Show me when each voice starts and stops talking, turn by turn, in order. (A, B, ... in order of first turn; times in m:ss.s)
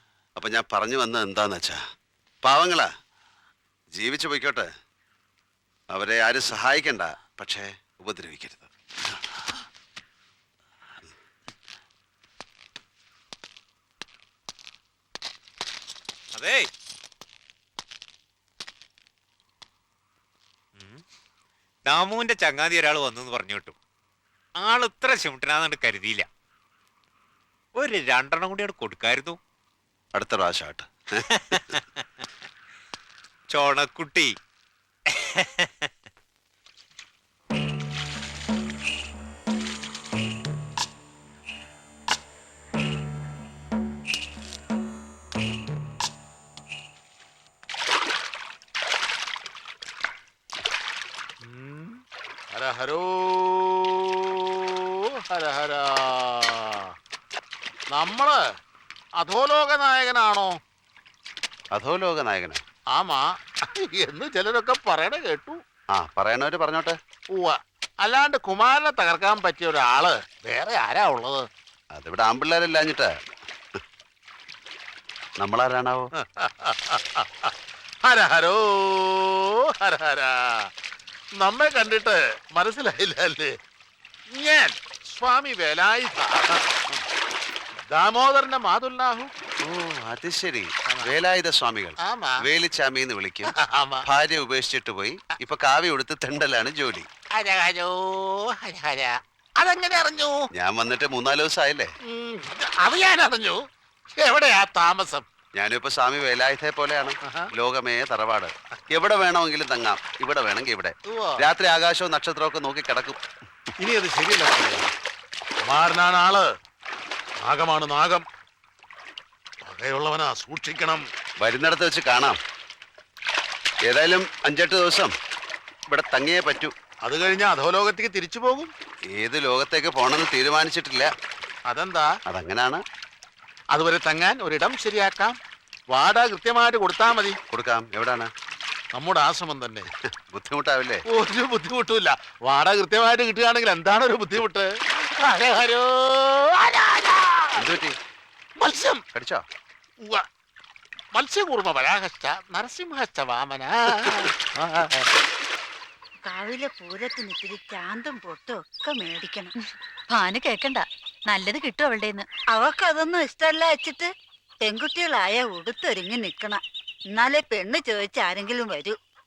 0:00.4-0:01.8 A
0:02.4-0:02.9 A
0:03.9-0:04.7 A
0:05.9-0:08.7 A
0:16.3-0:16.7 B
0:20.8-0:21.0 B
0:21.8-0:23.7 B
0:24.6-0:26.2 B
0:27.8-0:29.4 B
0:30.1-0:31.3 A
0:33.5-0:34.3 B
0:35.1-0:35.8 B
0:51.4-0:52.0 C
0:52.5-0:56.9 C
0:57.9-0:58.4 C
0:59.2-1:00.5 C
1:01.7-1:02.6 A
1:02.9-1:05.6 C
1:05.9-1:07.0 A
1:07.3-1:11.4 C
1:11.9-1:13.1 A
1:15.4-1:16.1 A
1:16.2-1:20.7 C
1:21.4-1:23.5 C
1:24.3-1:27.0 C
1:27.9-1:29.3 C
1:29.6-1:33.5 A
1:32.0-1:32.4 C
1:33.6-1:34.0 C
1:34.1-1:37.1 A
1:37.3-1:40.4 C
1:40.6-1:41.9 A
1:42.0-1:43.6 C
1:44.1-1:45.2 C
1:45.5-1:53.2 A
1:47.2-1:47.5 C
1:51.1-1:51.4 C
1:53.8-1:54.9 C
1:55.7-1:56.5 C
1:57.4-1:58.2 C
1:59.6-2:01.0 C
2:01.4-2:02.4 A
2:03.8-2:05.1 A
2:05.9-2:06.7 A
2:07.0-2:08.7 C
2:09.1-2:11.1 A
2:11.7-2:12.1 C
2:12.3-2:12.8 A
2:13.7-2:15.3 C
2:15.9-2:17.4 C
2:17.5-2:18.3 A
2:18.9-2:19.9 C
2:20.3-2:21.0 A
2:21.1-2:27.6 C
2:27.6-2:27.9 A
2:28.6-2:29.0 C
2:29.1-2:29.4 A
2:31.1-2:35.1 C
2:36.2-2:39.5 D
2:40.1-2:42.2 E
2:42.5-2:44.1 D
2:44.6-2:46.6 D
2:47.1-2:48.9 D